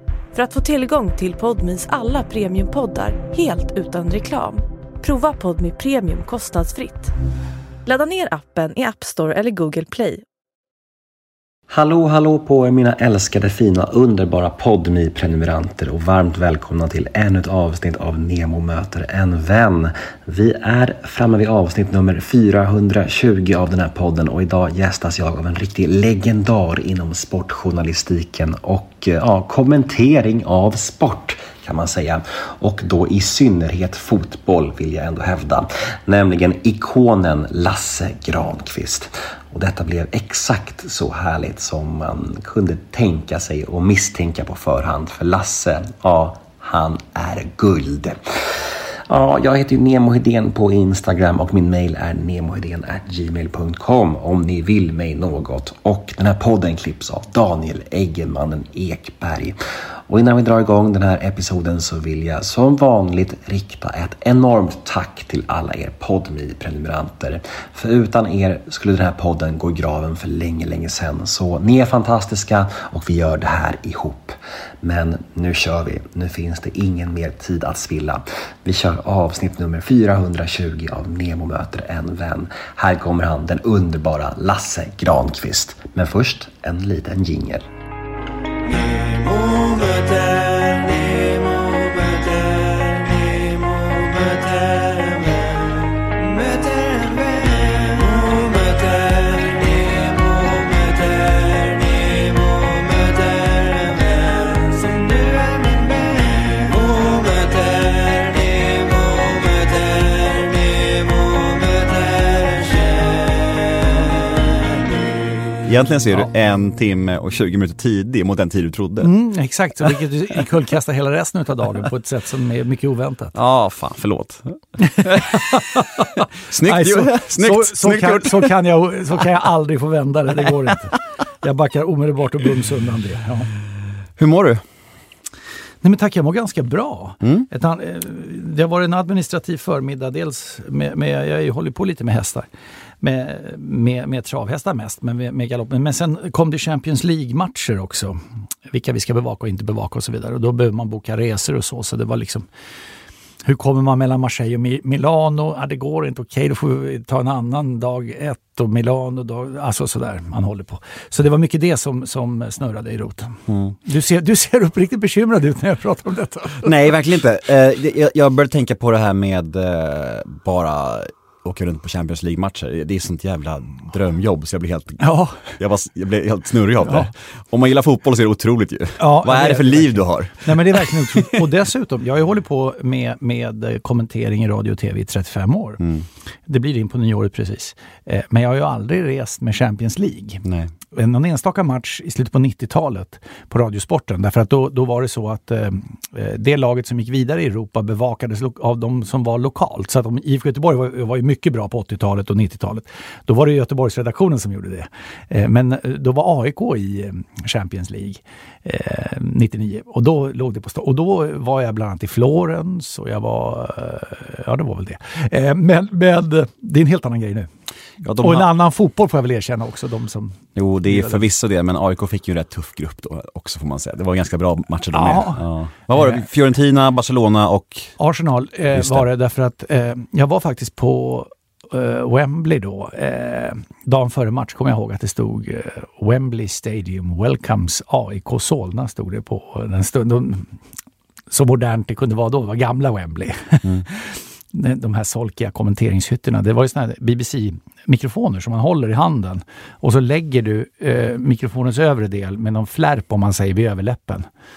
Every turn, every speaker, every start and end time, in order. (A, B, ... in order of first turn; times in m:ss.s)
0:00.3-0:07.1 A
0:07.8-0:10.2 A
0:11.7-0:48.2 B
0:49.1-0:59.6 B
1:00.1-1:27.7 B
1:55.6-1:59.1 C
1:59.0-2:03.3 D
2:03.3-2:08.6 C
2:04.8-2:13.5 D
2:14.2-2:14.6 C
2:15.8-2:22.5 D
2:23.0-2:32.5 D
2:33.4-2:46.9 D
2:43.5-2:43.7 C
2:46.6-3:01.4 C
2:55.0-2:55.5 D
2:59.0-3:05.8 D
3:06.5-3:37.5 D
3:10.4-3:10.7 C
3:38.0-3:38.5 C
3:38.1-3:41.2 D
3:40.5-3:47.9 C
3:44.9-3:46.2 D
3:48.0-4:00.6 D
3:48.7-3:49.1 C
4:01.3-4:14.3 D